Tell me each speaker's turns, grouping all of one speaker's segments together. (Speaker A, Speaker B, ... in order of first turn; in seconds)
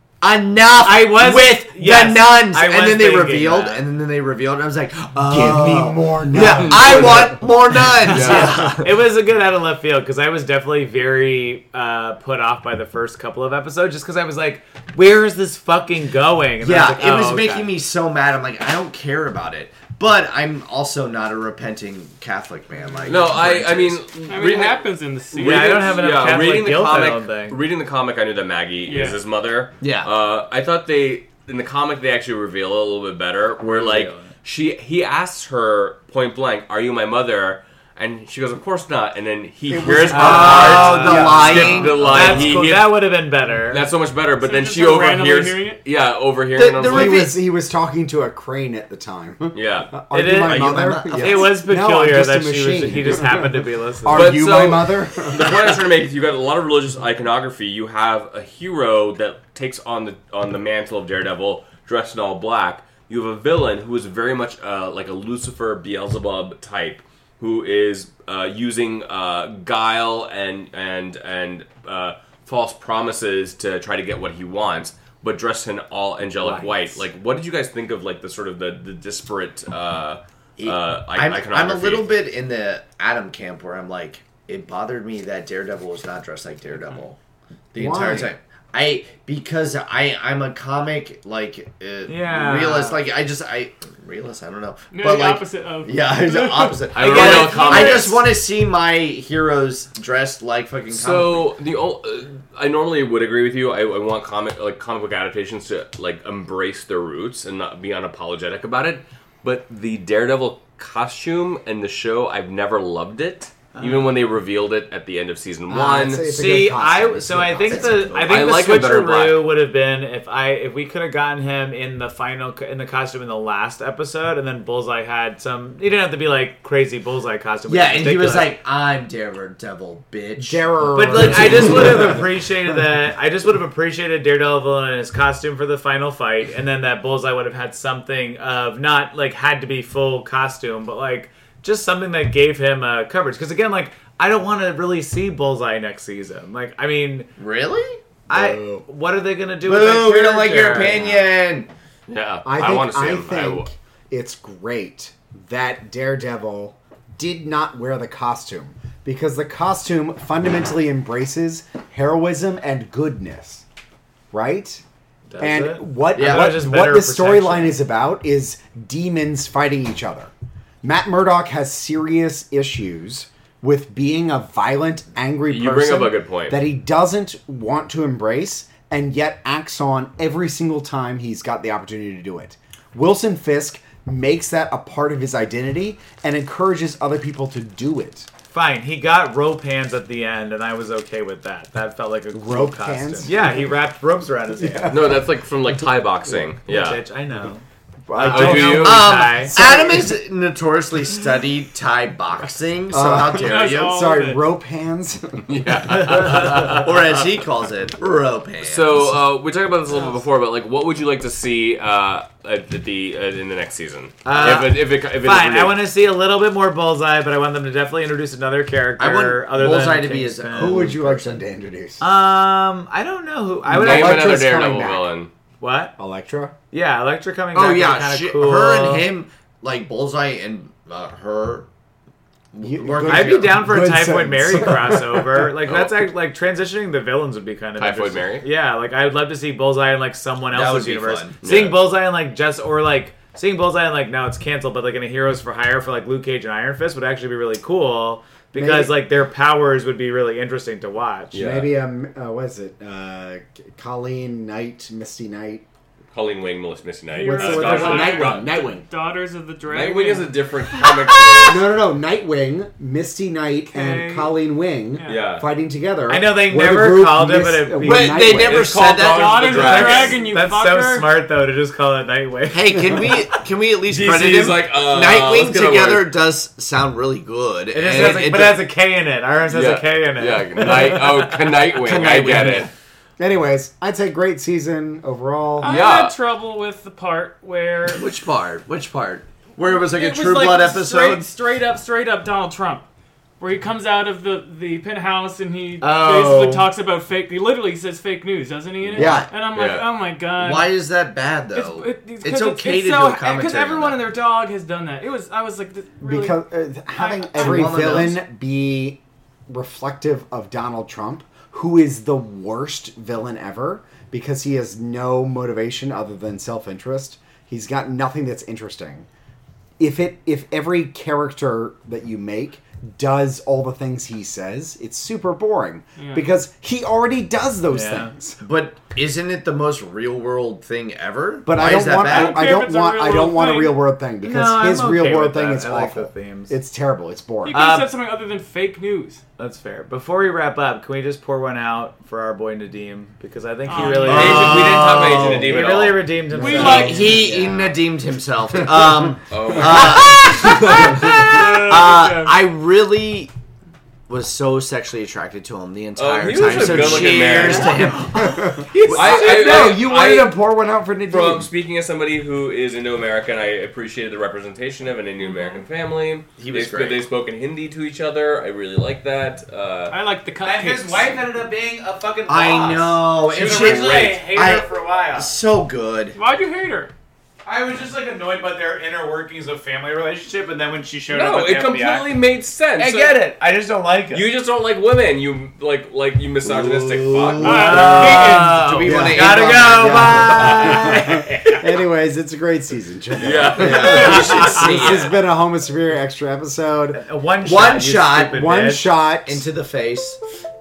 Speaker A: 0.2-9.0, 16.6-24.1, 29.8-30.1, 40.1-42.7, 46.5-47.4, 50.4-51.6, 80.6-87.2, 87.7-101.5, 117.7-118.1, 127.7-132.1, 147.4-148.0, 149.6-151.7, 166.1-166.5, 198.8-204.0, 206.7-209.2, 219.0-221.4, 227.5-231.7, 232.5-233.6, 240.5-241.4, 267.8-270.1, 272.5-278.6, 281.7-282.7, 287.9-291.3, 298.9-299.3, 300.4-304.0, 307.4-308.2, 328.4-332.5, 344.1-345.4, 346.6-353.3, 354.1-358.3, 366.4-367.0, 372.3-376.2, 386.4-390.6, 393.6-395.1, 397.4-398.4, 399.3-400.2
Speaker B: 0.8-3.8, 8.1-17.7, 25.4-27.6, 33.7-34.3, 40.1-41.3, 42.1-43.9, 50.1-54.3, 76.4-77.0, 92.1-93.0, 97.0-98.1, 113.8-114.2, 116.3-128.6, 130.9-147.3, 148.3-151.2, 165.3-167.8, 188.5-195.0, 196.7-199.8, 206.1-206.8, 214.2-220.9, 222.0-224.4, 225.6-225.9, 226.7-229.1, 233.1-251.4, 266.1-268.4, 269.7-273.2, 277.7-281.6, 295.8-296.7, 327.7-328.1, 334.2-336.5, 337.5-337.9, 339.4-347.2, 356.6-357.9, 358.7-359.7, 370.4-375.3, 377.4-382.1, 382.8-384.2, 387.4-391.7, 393.9-394.6, 396.9-398.9
Speaker C: 5.2-7.5, 39.7-42.1, 46.8-55.9, 87.8-88.3, 115.7-118.3, 130.4-132.3, 148.3-148.8, 150.8-151.1, 152.4-163.7, 164.3-164.8, 165.4-170.3, 170.8-188.3, 192.3-193.7, 194.6-195.3, 198.1-200.2, 202.9-206.7, 220.5-222.1, 223.7-225.1, 226.0-226.6, 232.6-235.5, 248.5-249.0, 251.3-255.7, 257.3-258.9, 261.5-268.7, 283.2-285.8, 298.9-299.3, 306.0-319.1, 319.8-328.4, 331.5-337.6, 346.3-347.8, 348.5-349.9, 350.7-351.4, 356.7-357.1, 357.9-361.5, 388.8-397.0, 398.2-399.4
Speaker D: 6.4-8.7, 23.1-43.1, 43.7-47.3, 49.5-49.9, 54.1-82.1, 97.0-98.2, 100.9-116.5, 118.1-119.5, 152.1-153.7, 175.5-176.6, 194.9-197.0, 198.2-199.2, 205.5-207.2, 208.6-215.8, 223.7-225.3, 235.7-235.9, 237.8-238.5, 241.4-241.8, 251.3-251.7, 256.1-258.6, 259.7-261.6, 265.1-265.4, 268.3-270.2, 273.9-276.1, 279.5-282.7, 285.6-286.2, 299.4-299.9, 344.0-346.1, 349.3-350.5, 356.0-358.4, 358.9-360.5, 361.1-370.0, 373.3-374.1, 381.1-383.3, 384.1-388.2, 390.4-390.7, 393.2-395.0
Speaker E: 24.3-26.4, 28.9-29.2, 44.4-45.8, 94.9-98.0, 203.3-204.5, 257.1-261.5, 263.6-264.3, 264.9-265.3, 268.9-271.1, 285.6-288.1, 289.7-292.9, 293.4-300.7, 301.5-308.1, 326.0-326.3, 331.9-333.8, 337.4-339.2, 343.7-344.7, 346.3-347.2, 350.4-352.4, 365.2-365.6, 369.9-371.2, 376.1-376.9, 387.4-388.6